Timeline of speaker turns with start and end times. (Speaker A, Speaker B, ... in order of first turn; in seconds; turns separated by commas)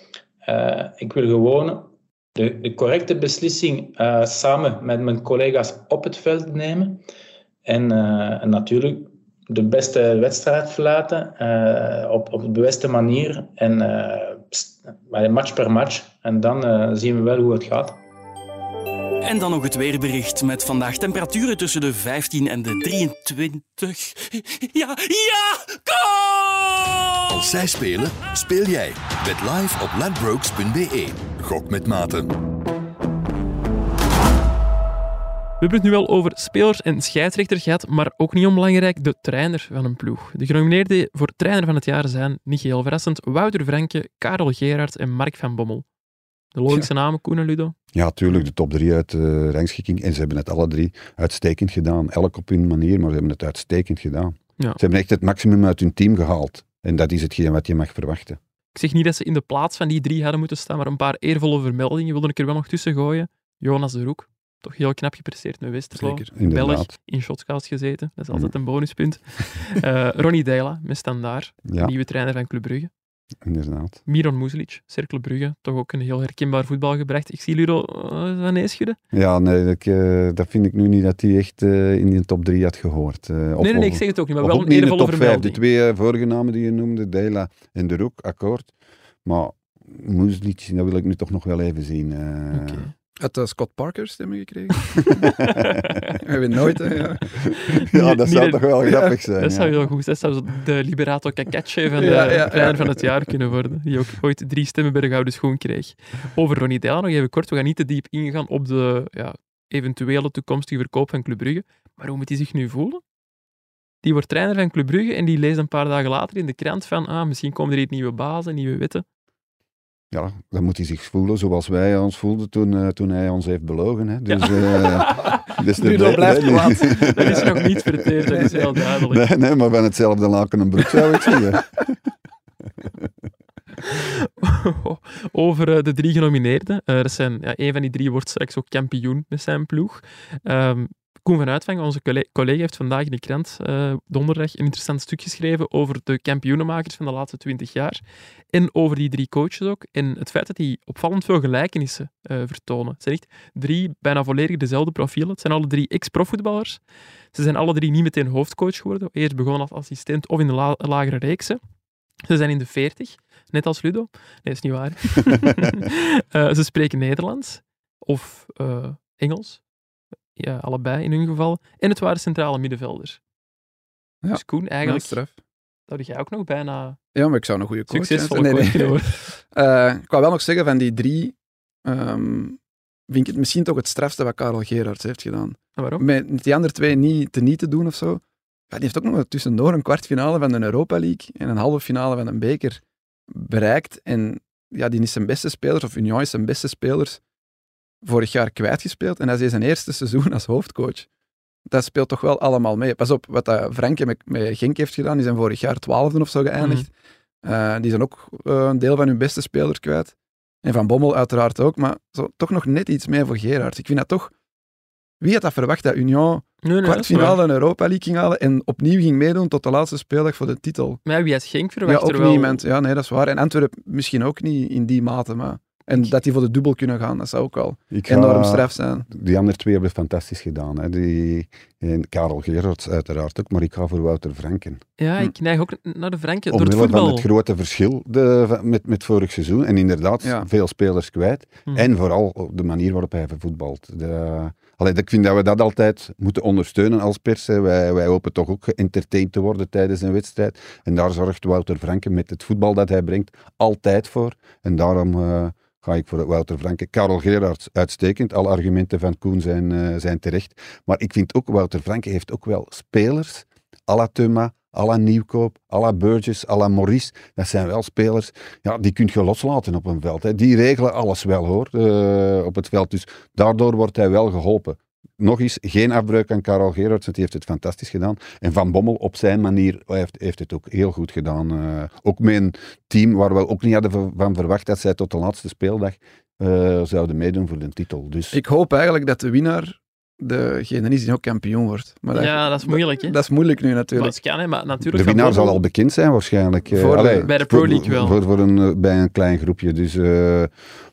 Speaker A: 0.5-7.0, Speaker A: 7.7-18.0, Speaker B: 19.2-27.1, Speaker C: 27.3-32.4, Speaker D: 35.6-45.9, Speaker D: 46.5-47.8, Speaker E: 47.9-58.4, Speaker D: 58.8-72.9, Speaker E: 66.3-66.9, Speaker E: 71.7-71.9, Speaker E: 73.5-74.0, Speaker D: 74.1-79.0, Speaker E: 79.1-88.7, Speaker D: 83.6-85.6, Speaker E: 89.2-92.9, Speaker D: 92.5-92.9, Speaker F: 93.2-95.2, Speaker E: 95.2-96.0, Speaker D: 95.9-96.1, Speaker F: 96.2-97.3, Speaker E: 97.3-99.8, Speaker D: 97.8-113.0, Speaker F: 102.0-103.0, Speaker D: 114.0-119.0, Speaker E: 120.1-131.9, Speaker D: 124.3-129.2, Speaker F: 125.8-127.4, Speaker D: 133.8-148.0, Speaker D: 148.5-156.8, Speaker D: 157.3-161.6, Speaker D: 162.3-169.6, Speaker D: 170.4-173.2, Speaker F: 174.2-175.3, Speaker D: 174.3-175.2, Speaker D: 175.9-177.0, Speaker F: 177.2-182.6, Speaker D: 177.9-179.2, Speaker F: 183.1-197.2, Speaker D: 185.8-186.1, Speaker F: 198.0-201.1, Speaker F: 201.7-206.9, Speaker D: 206.6-206.9, Speaker F: 207.4-214.3, Speaker F: 215.2-221.0, Speaker D: 216.6-217.4, Speaker D: 221.1-222.6, Speaker F: 221.9-229.1, Speaker E: 227.9-234.8, Speaker D: 235.0-237.3, Speaker E: 236.5-288.4, Speaker F: 240.2-240.5, Speaker F: 288.3-294.1, Speaker D: 292.1-293.2, Speaker D: 293.9-295.6, Speaker E: 294.9-300.5, Speaker F: 296.7-297.3, Speaker D: 297.3-298.2